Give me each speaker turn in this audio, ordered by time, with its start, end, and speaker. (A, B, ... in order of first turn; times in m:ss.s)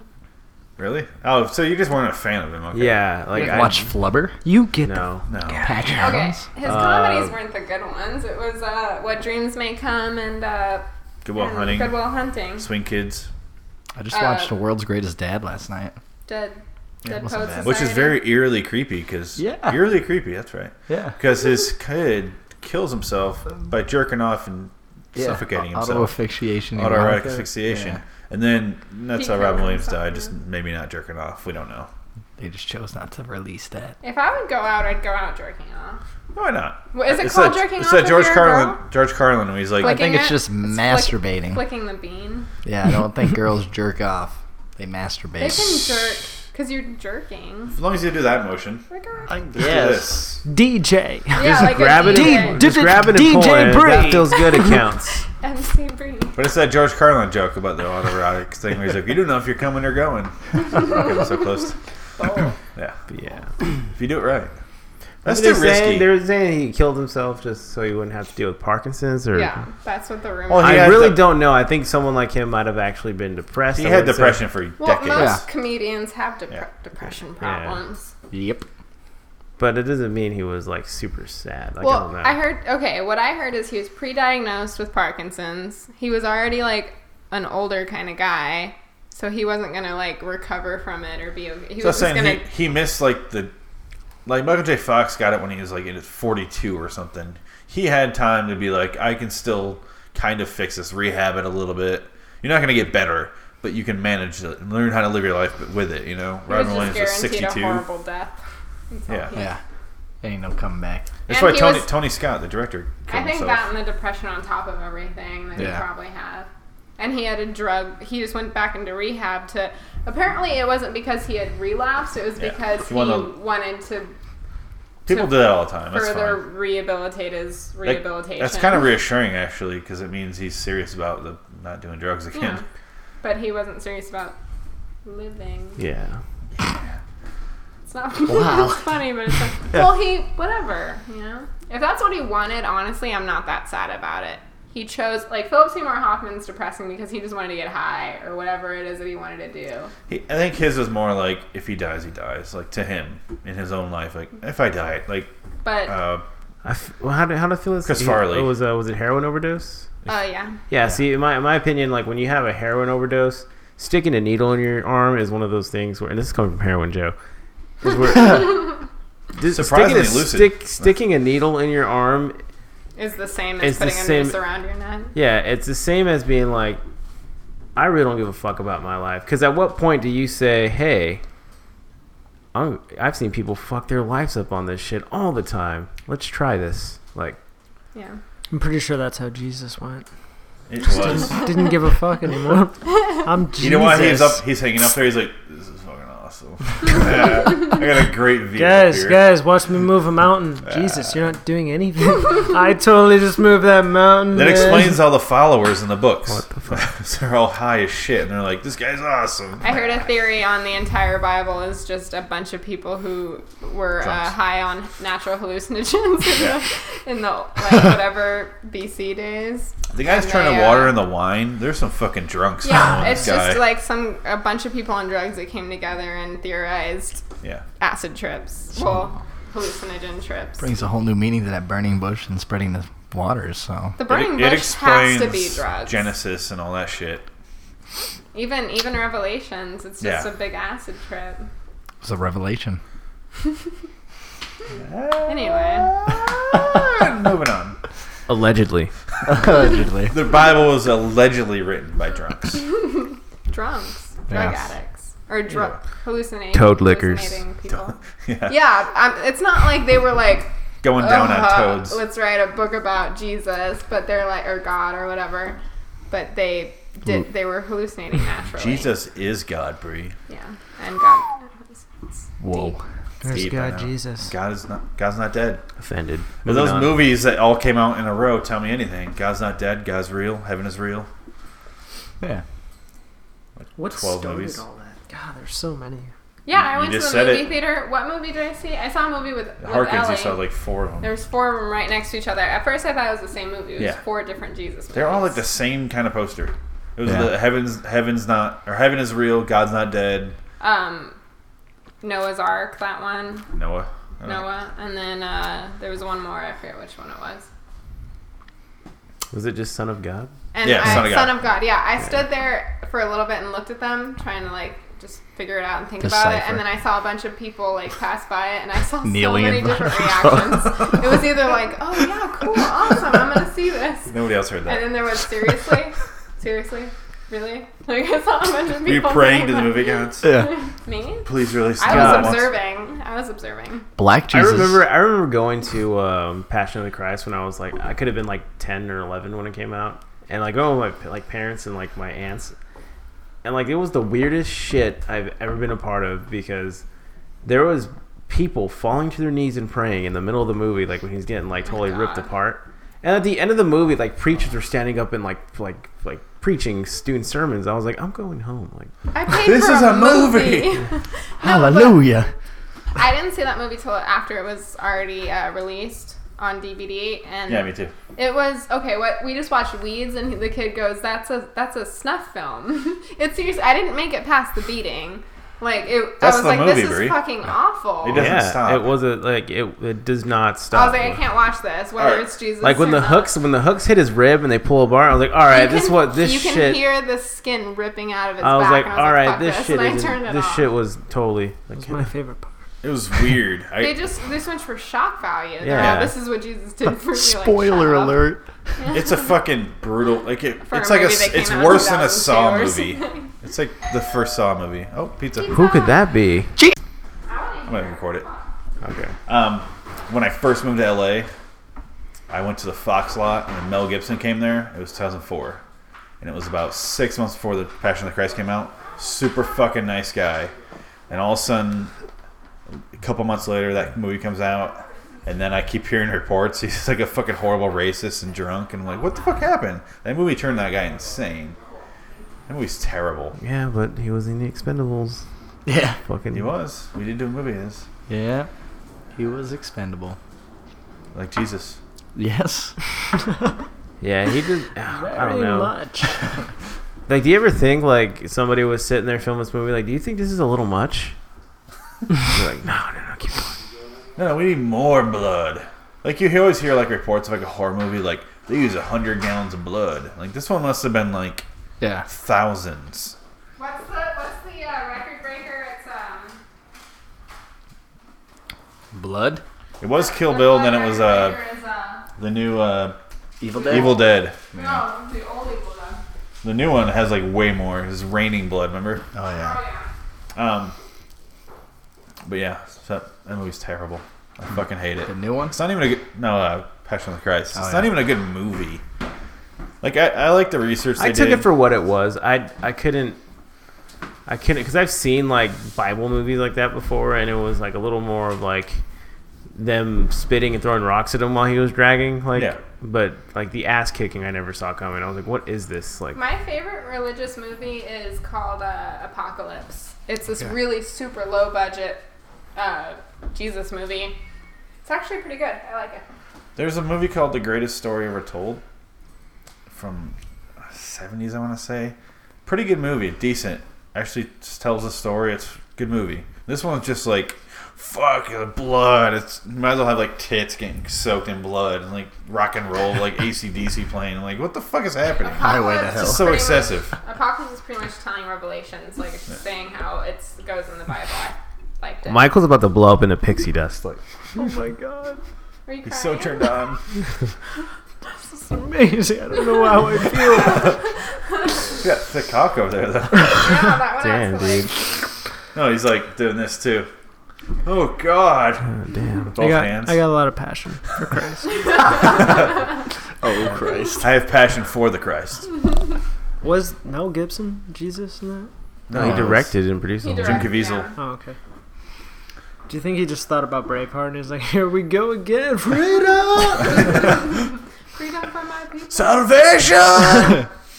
0:00.8-0:03.0 A
0:02.7-0:04.0 B
0:03.4-0:04.4 C
0:03.4-0:03.7 D
0:04.4-0:05.8 D
0:04.8-0:05.3 B
0:05.3-0:05.7 A
0:05.5-0:06.4 C
0:06.0-0:10.8 E
0:06.6-0:07.4 B
0:11.2-0:13.3 A
0:11.4-0:12.7 E
0:14.0-0:16.0 C
0:14.1-0:14.6 E
0:16.3-0:18.3 E
0:17.1-0:26.1 A
0:17.2-0:17.8 C
0:19.4-0:19.9 C
0:20.9-0:21.2 C
0:25.2-0:28.0 C
0:26.8-0:31.9 A
0:29.2-0:30.3 E
0:32.4-0:34.0 C
0:34.0-0:36.0 E
0:36.3-0:40.1 A
0:36.9-0:38.8 E
0:39.8-0:42.5 E
0:39.8-0:41.6 C
0:42.6-0:46.1 C
0:45.4-0:47.8 E
0:47.7-0:48.9 A
0:48.9-0:49.4 E
0:49.3-0:50.4 C
0:49.5-0:50.4 A
0:50.4-0:54.7 D
0:51.3-0:52.7 E
0:51.4-0:55.2 B
0:54.7-0:56.4 E
0:56.4-1:01.8 A
1:00.8-1:01.1 E
1:02.2-1:02.6 E
1:02.7-1:03.0 A
1:03.1-1:03.5 B
1:03.9-1:04.5 A
1:05.2-1:06.1 A
1:05.2-1:09.5 B
1:09.3-1:11.0 E
1:10.5-1:11.2 A
1:10.6-1:14.4 B
1:13.7-1:15.5 A
1:14.8-1:18.1 E
1:15.2-1:15.4 C
1:17.4-1:17.8 B
1:18.3-1:18.7 C
1:19.6-1:22.4 B
1:21.8-1:32.5 E
1:31.8-1:33.5 A
1:34.3-1:47.8 A
1:46.5-1:48.4 E
1:48.9-1:49.5 E
1:49.3-1:49.6 C
1:50.2-1:51.1 C
1:51.3-1:51.9 E
1:51.3-1:53.7 A
1:53.1-2:04.1 E
1:55.6-1:55.8 C
2:02.4-2:03.4 A
2:05.1-2:06.5 A
2:05.1-2:08.9 E
2:07.8-2:12.6 A
2:12.3-2:12.6 E
2:13.2-2:14.4 E
2:15.0-2:15.8 E
2:15.8-2:16.2 B
2:16.6-2:17.0 A
2:17.9-2:29.9 E
2:18.3-2:18.9 C
2:30.1-2:35.3 A
2:35.6-2:36.0 E
2:35.8-2:36.2 A
2:36.6-2:39.9 B
2:37.9-2:38.5 A
2:40.1-2:40.6 E
2:40.7-2:47.2 B
2:47.8-2:48.7 B
2:49.4-2:52.4 B
2:49.5-2:50.9 A
2:53.0-2:55.1 E
2:53.6-2:54.4 B
2:55.1-2:56.8 B
2:57.8-3:01.2 B
3:02.5-3:07.4 B
3:07.9-3:08.2 E
3:08.5-3:10.1 D
3:10.7-3:11.4 A
3:11.2-3:14.4 D
3:13.6-3:19.2 A
3:18.6-3:25.0 D
3:20.7-3:21.1 A
3:24.3-3:29.8 A
3:26.3-3:26.8 B
3:29.6-3:41.0 E
3:34.0-3:34.3 A
3:39.9-3:43.6 A
3:42.6-3:47.2 E
3:47.8-3:50.7 E
3:50.6-3:54.0 C
3:54.0-3:56.1 E
3:54.1-3:57.3 A
3:58.3-4:01.5 E
4:00.0-4:00.3 A
4:02.0-4:02.8 C
4:04.7-4:07.8 A
4:05.3-4:06.0 E
4:08.3-4:08.9 B
4:09.2-4:10.2 C
4:10.0-4:12.7 A
4:12.6-4:25.6 E
4:14.3-4:14.6 C
4:15.5-4:15.8 A
4:16.5-4:17.4 B
4:17.7-4:18.6 A
4:20.8-4:22.0 A
4:26.1-4:28.9 E
4:28.5-4:30.2 A
4:30.3-4:32.8 E
4:32.4-4:32.8 C
4:33.2-4:34.3 D
4:33.2-4:35.6 A
4:35.8-4:37.1 B
4:36.4-4:41.1 A
4:43.6-4:44.6 A
4:43.8-4:46.1 D
4:46.5-4:50.4 E
4:46.5-4:47.6 A
4:49.6-4:51.1 A
4:51.0-4:55.4 E
4:53.8-4:54.0 A
4:54.9-5:00.4 A
4:57.0-4:57.3 C
5:00.6-5:01.2 E
5:02.0-5:03.5 E
5:03.5-5:04.5 A
5:04.2-5:07.5 E
5:09.3-5:10.3 B
5:10.5-5:24.1 E
5:10.6-5:11.5 A
5:16.0-5:16.6 C
5:19.0-5:21.3 C
5:24.1-5:25.0 A
5:24.6-5:33.9 E
5:28.8-5:30.3 A
5:30.2-5:30.5 C
5:31.3-5:32.6 A
5:31.9-5:32.4 B
5:34.0-5:34.8 C
5:34.3-5:42.6 B
5:43.4-5:46.8 B
5:47.4-5:58.9 B
5:51.7-5:52.3 E
5:59.1-6:02.2 E
5:59.3-6:00.8 A
6:01.4-6:02.3 C
6:03.0-6:18.4 E
6:07.5-6:08.0 A
6:16.2-6:17.2 A
6:18.0-6:18.9 A
6:18.1-6:21.2 B
6:20.7-6:23.4 E
6:22.0-6:22.3 A
6:22.6-6:26.8 B
6:25.5-6:30.7 E
6:28.4-6:32.1 B
6:31.8-6:32.5 D
6:32.8-6:34.0 A
6:33.8-6:39.3 E
6:35.6-6:36.2 B
6:35.8-6:36.1 A
6:37.1-6:38.4 C
6:38.9-6:45.6 A
6:40.6-6:43.3 E
6:45.4-6:46.1 E
6:45.5-6:46.6 B
6:47.3-6:48.5 E
6:47.7-6:48.3 A
6:48.8-6:49.2 B
6:49.3-6:51.3 A
6:52.3-6:55.6 A
6:56.2-7:00.5 A
7:01.1-7:01.9 A
7:03.0-7:11.6 A
7:12.5-7:13.4 A
7:13.4-7:15.3 B
7:15.7-7:16.0 C
7:16.0-7:16.5 B
7:16.3-7:17.9 A
7:18.1-7:18.5 C
7:19.2-7:20.2 C
7:21.1-7:21.8 A
7:22.2-7:22.8 C
7:24.0-7:25.7 B
7:24.9-7:26.2 D
7:27.1-7:31.2 B
7:32.3-7:33.6 B
7:34.2-7:41.5 A
7:41.8-7:42.1 C
7:42.1-7:43.2 A
7:43.6-7:46.4 E
7:48.9-7:49.4 C
7:49.8-7:51.4 A
7:49.9-7:52.1 E
7:52.2-7:53.0 A
7:53.4-7:54.8 C
7:53.6-7:54.4 A
7:54.5-7:56.0 E
7:56.4-7:59.1 A
7:59.1-7:59.6 C
7:59.3-7:59.9 E
8:00.4-8:00.8 A
8:02.2-8:08.8 A
8:05.1-8:05.6 C
8:07.6-8:07.9 C
8:09.8-8:11.5 A
8:11.0-8:13.2 B
8:14.3-8:18.8 B
8:19.6-8:26.2 B
8:22.3-8:22.6 A
8:26.1-8:32.0 E
8:32.6-8:34.2 E
8:34.8-8:36.0 E
8:36.6-8:38.6 A
8:39.7-8:57.0 A
8:55.2-9:02.3 E
8:55.4-8:56.4 C
9:02.1-9:04.0 B
9:04.4-9:05.2 D
9:05.7-9:06.6 E
9:05.8-9:06.8 A
9:08.4-9:10.8 D
9:10.3-9:11.6 E
9:11.8-9:13.7 A
9:13.3-9:14.7 E
9:14.0-9:14.8 B
9:15.5-9:16.9 A
9:17.6-9:18.7 A
9:18.8-9:19.3 B
9:19.3-9:20.0 A
9:19.4-9:21.6 D
9:23.2-9:24.1 C
9:24.0-9:25.5 A
9:26.4-9:28.5 D
9:28.9-9:29.5 A
9:28.9-9:30.5 B
9:30.0-9:31.0 E
9:30.2-9:30.9 A
9:31.0-9:31.4 D
9:32.7-9:36.8 D
9:36.5-9:37.1 A
9:36.8-9:37.1 E
9:38.0-9:39.1 E
9:38.9-9:40.5 A